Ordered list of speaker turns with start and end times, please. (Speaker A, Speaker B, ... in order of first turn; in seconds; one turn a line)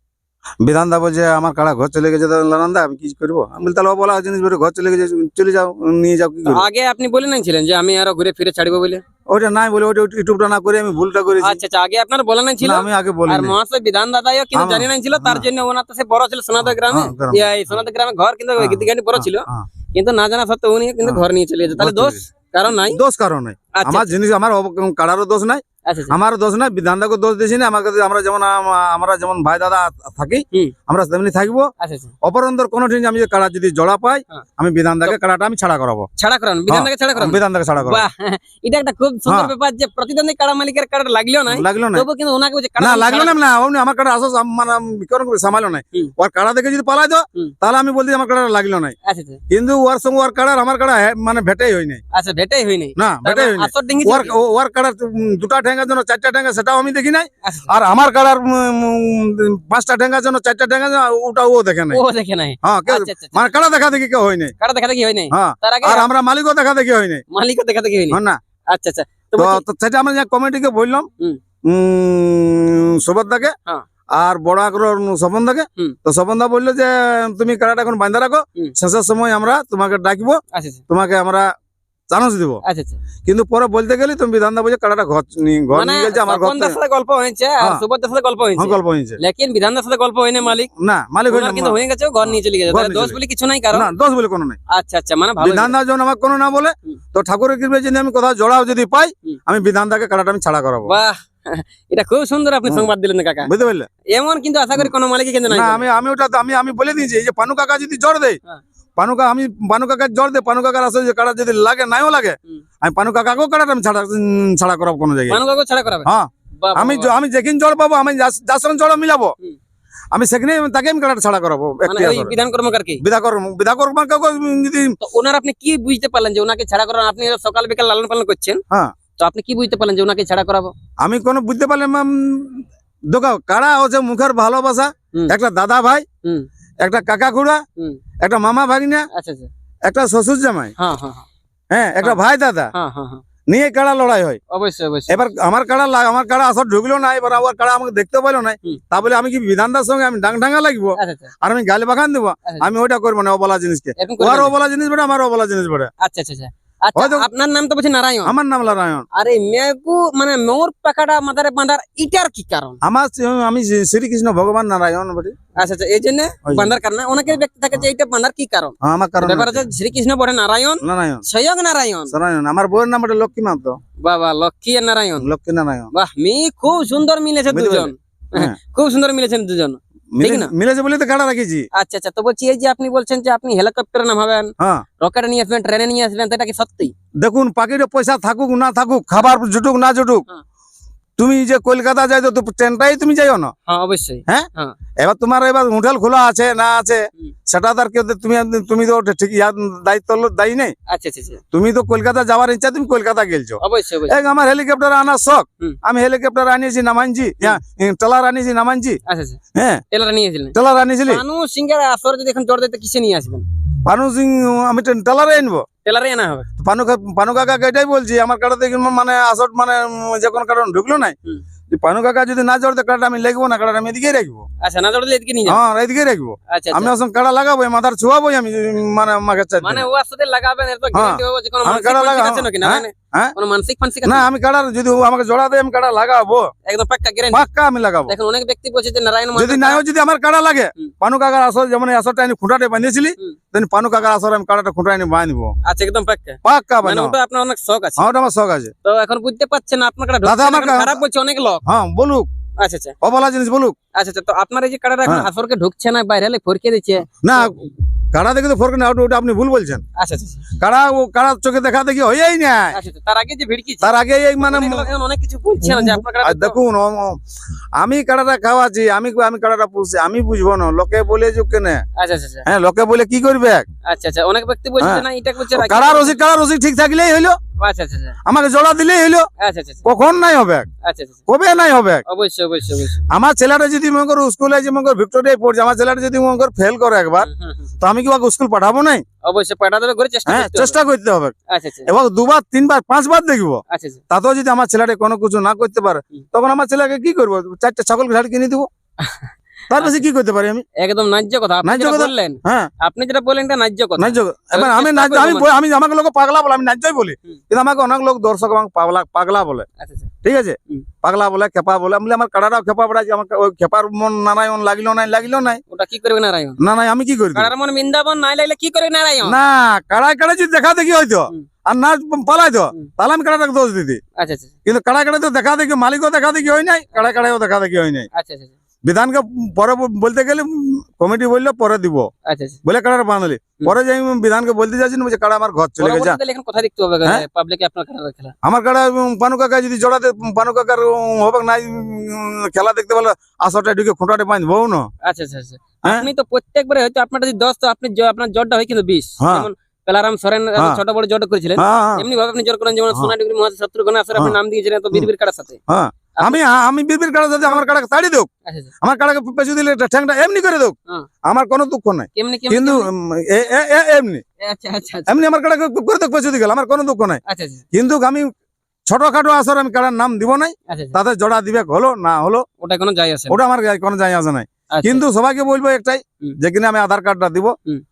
Speaker A: 0.6-6.7
Speaker B: 6.5-9.0
Speaker A: 9.3-11.6
Speaker B: 11.4-23.0
Speaker A: 12.6-13.6
Speaker A: 14.5-15.4
Speaker A: 16.6-17.5
Speaker A: 18.6-19.7
Speaker A: 21.8-31.7
Speaker B: 23.7-24.1
Speaker B: 25.8-26.1
Speaker B: 31.8-32.1
Speaker A: 32.2-36.1
Speaker B: 36.2-43.4
Speaker A: 36.7-38.0
Speaker A: 39.3-39.5
Speaker A: 41.5-42.1
Speaker A: 42.8-49.0
Speaker B: 49.0-49.4
Speaker A: 49.5-52.0
Speaker B: 52.1-54.4
Speaker A: 53.0-62.0
Speaker B: 57.4-57.7
Speaker B: 61.9-63.5
Speaker A: 62.6-64.5
Speaker B: 64.6-66.1
Speaker A: 65.3-67.2
Speaker B: 67.3-69.6
Speaker A: 68.1-68.4
Speaker A: 69.4-71.1
Speaker A: 71.6-73.5
Speaker A: 74.1-81.5
Speaker B: 80.5-80.8
Speaker A: 82.1-82.6
Speaker B: 82.6-83.0
Speaker A: 83.2-86.8
Speaker B: 85.7-90.7
Speaker A: 88.6-89.2
Speaker A: 90.8-93.2
Speaker B: 91.3-93.9
Speaker A: 93.7-94.6
Speaker B: 94.7-95.7
Speaker A: 95.4-100.9
Speaker B: 100.9-103.5
Speaker A: 102.6-102.9
Speaker A: 103.4-103.9
Speaker B: 104.1-105.8
Speaker A: 105.5-108.4
Speaker A: 109.0-115.4
Speaker B: 115.3-117.1
Speaker A: 116.0-119.3
Speaker A: 120.1-122.4
Speaker B: 121.8-123.0
Speaker A: 123.0-125.0
Speaker B: 125.0-128.6
Speaker B: 129.2-130.7
Speaker A: 131.0-136.1
Speaker A: 136.8-137.6
Speaker A: 138.2-139.1
Speaker B: 139.1-139.5
Speaker A: 139.9-140.7
Speaker B: 140.8-141.2
Speaker A: 141.7-142.7
Speaker B: 142.7-143.2
Speaker A: 143.5-144.4
Speaker B: 144.5-145.3
Speaker A: 145.1-155.9
Speaker B: 150.9-151.3
Speaker B: 154.0-154.5
Speaker B: 156.0-158.3
Speaker A: 156.9-157.3
Speaker A: 158.2-159.1
Speaker B: 159.1-162.8
Speaker A: 162.8-165.3
Speaker B: 165.6-172.2
Speaker A: 166.4-166.8
Speaker A: 168.8-169.7
Speaker A: 170.8-171.2
Speaker A: 172.1-173.8
Speaker B: 174.0-175.3
Speaker A: 175.2-175.9
Speaker B: 175.9-180.5
Speaker A: 177.5-178.6
Speaker A: 180.2-181.7
Speaker B: 181.7-186.9
Speaker A: 187.2-190.2
Speaker A: 191.2-193.5
Speaker B: 193.7-194.8
Speaker A: 194.3-200.7
Speaker B: 200.9-201.4
Speaker A: 201.5-209.0
Speaker B: 203.6-204.2
Speaker B: 209.1-209.4
Speaker A: 209.5-209.8
Speaker B: 209.9-210.5
Speaker A: 210.5-211.2
Speaker B: 211.1-213.4
Speaker A: 213.8-215.6
Speaker B: 215.8-216.5
Speaker A: 216.6-221.1
Speaker A: 221.7-224.4
Speaker B: 224.6-225.6
Speaker A: 225.4-229.8
Speaker B: 226.5-226.9
Speaker B: 229.6-234.2
Speaker A: 230.9-233.3
Speaker A: 234.0-236.5
Speaker B: 236.7-237.4
Speaker A: 237.3-238.1
Speaker B: 238.1-239.8
Speaker A: 239.3-245.5
Speaker B: 245.6-248.1
Speaker A: 246.4-247.1
Speaker A: 248.0-248.7
Speaker B: 248.8-251.6
Speaker A: 250.2-251.0
Speaker A: 251.7-252.3
Speaker B: 252.6-252.9
Speaker A: 253.0-253.8
Speaker B: 253.9-257.5
Speaker A: 257.2-259.8
Speaker B: 259.9-260.5
Speaker A: 260.6-262.8
Speaker B: 262.7-266.6
Speaker A: 263.8-264.9
Speaker A: 265.6-267.2
Speaker A: 267.8-271.8
Speaker B: 271.9-272.4
Speaker A: 272.4-273.7
Speaker B: 273.8-276.1
Speaker A: 274.8-277.4
Speaker B: 277.6-278.2
Speaker A: 278.2-279.3
Speaker B: 279.4-279.8
Speaker A: 279.8-280.7
Speaker B: 280.8-281.2
Speaker A: 281.3-282.0
Speaker B: 282.1-283.0
Speaker A: 283.1-287.3
Speaker B: 287.2-287.7
Speaker A: 287.8-289.0
Speaker B: 289.2-290.8
Speaker A: 290.2-291.3
Speaker B: 291.5-291.9
Speaker A: 291.9-298.7
Speaker B: 293.7-294.0
Speaker B: 299.0-300.0
Speaker A: 299.7-300.6
Speaker B: 300.8-305.5
Speaker A: 301.6-302.7
Speaker A: 304.0-309.6
Speaker B: 309.8-310.1
Speaker A: 310.2-315.6
Speaker B: 315.7-316.6
Speaker A: 316.6-317.5
Speaker B: 317.3-319.4
Speaker A: 319.2-324.0
Speaker B: 324.2-324.5
Speaker A: 324.6-328.1
Speaker B: 328.1-328.5
Speaker A: 328.8-332.1
Speaker B: 332.2-332.6
Speaker A: 332.6-336.2
Speaker B: 335.8-338.3
Speaker A: 338.4-344.9
Speaker B: 345.0-355.6
Speaker A: 345.8-346.1
Speaker A: 349.2-349.5
Speaker A: 351.6-352.1
Speaker A: 355.7-358.3
Speaker B: 358.4-358.7
Speaker A: 358.8-364.2
Speaker B: 362.1-362.9
Speaker B: 364.4-365.2
Speaker A: 365.1-367.2
Speaker B: 367.2-367.6
Speaker A: 367.7-368.3
Speaker A: 368.9-372.4
Speaker B: 370.7-371.0
Speaker B: 372.6-373.4
Speaker A: 373.3-377.5
Speaker B: 374.7-375.0